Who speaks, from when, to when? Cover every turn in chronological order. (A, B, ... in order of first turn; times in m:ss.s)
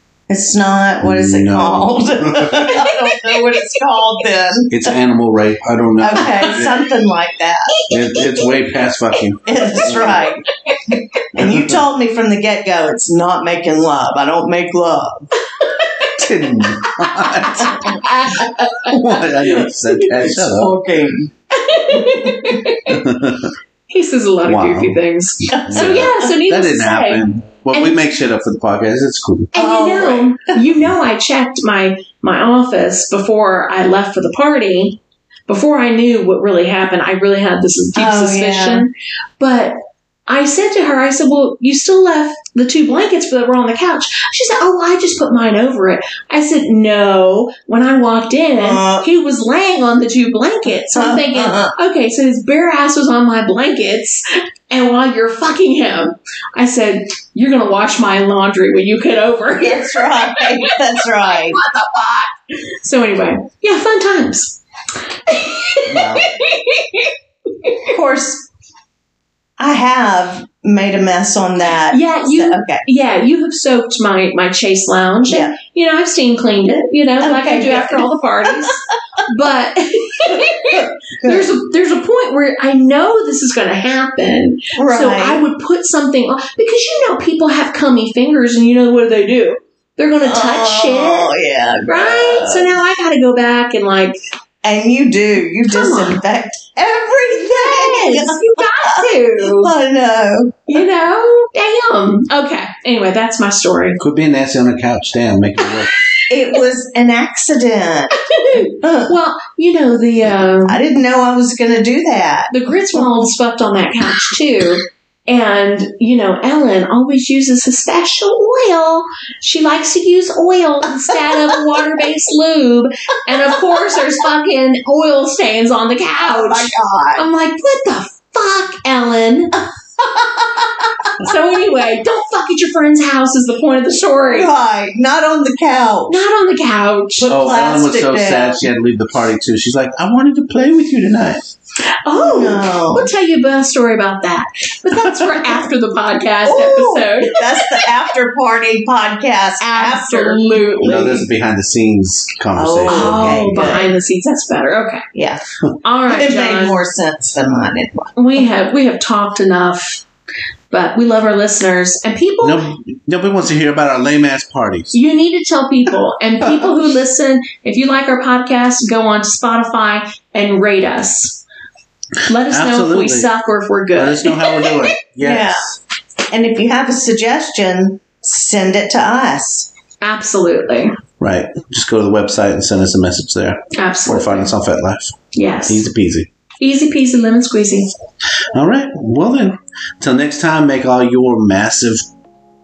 0:00.3-0:05.0 A
0:01.0-0:02.7 B
0:02.7-0:03.5 C
0:04.7-0:06.8 B
0:06.0-0:07.7 A
0:07.8-0:08.5 C
0:07.9-0:10.2 B
0:09.4-0:10.4 A
0:10.7-0:11.2 C
0:11.3-0:15.3 A
0:11.4-0:11.8 B
0:15.6-0:16.3 C
0:16.2-0:18.0 B
0:17.0-0:19.6 C
0:17.4-0:18.0 A
0:18.8-0:20.7 B
0:20.0-0:21.3 A
0:21.5-0:23.0 C
0:21.9-0:22.6 A
0:22.9-0:23.5 B
0:23.9-0:28.0 C
0:24.4-0:25.0 B
0:25.5-0:26.3 A
0:25.6-0:29.5 B
0:29.5-0:39.8 C
0:29.5-0:30.7 A
0:38.0-0:38.9 A
0:40.3-1:04.6 C
0:48.5-0:49.1 A
0:50.9-0:51.7 A
0:59.6-1:01.6 A
1:05.2-1:07.9 C
1:05.8-1:06.3 B
1:07.9-1:08.4 A
1:09.6-1:12.8 A
1:11.9-1:31.3 C
1:15.3-1:15.5 A
1:17.2-1:18.7 A
1:20.2-1:21.5 A
1:24.7-1:25.4 A
1:30.2-1:32.8 A
1:31.9-1:34.2 C
1:34.6-1:40.8 A
1:35.7-1:36.2 C
1:37.3-1:39.7 C
1:40.7-1:44.0 C
1:44.0-1:45.9 B
1:46.3-1:49.1 A
1:48.3-1:50.8 C
1:50.6-1:53.3 A
1:52.5-2:09.6 C
2:00.9-2:01.8 A
2:03.3-2:03.6 A
2:06.2-2:07.2 A
2:10.0-2:11.1 A
2:11.2-2:14.5 C
2:14.3-2:16.2 A
2:16.1-2:17.3 C
2:17.2-2:18.7 A
2:17.3-2:21.4 B
2:22.0-2:27.9 C
2:22.1-2:23.1 A
2:26.4-2:30.6 A
2:29.6-2:31.3 C
2:30.8-2:33.5 B
2:32.5-2:33.9 A
2:32.9-2:35.0 C
2:35.1-2:35.4 A
2:35.8-2:36.8 C
2:36.1-2:38.4 A
2:38.2-2:40.0 C
2:40.7-2:42.6 C
2:42.4-2:45.0 B
2:44.9-2:51.4 C
2:52.3-2:54.7 C
2:52.5-2:53.3 B
2:54.0-2:55.7 B
2:55.2-2:55.6 A
2:56.3-2:59.7 A
3:00.0-3:00.9 C
3:01.2-3:05.2 B
3:03.7-3:04.5 C
3:05.3-3:05.8 C
3:05.7-3:06.3 B
3:06.6-3:07.9 C
3:08.5-3:12.0 B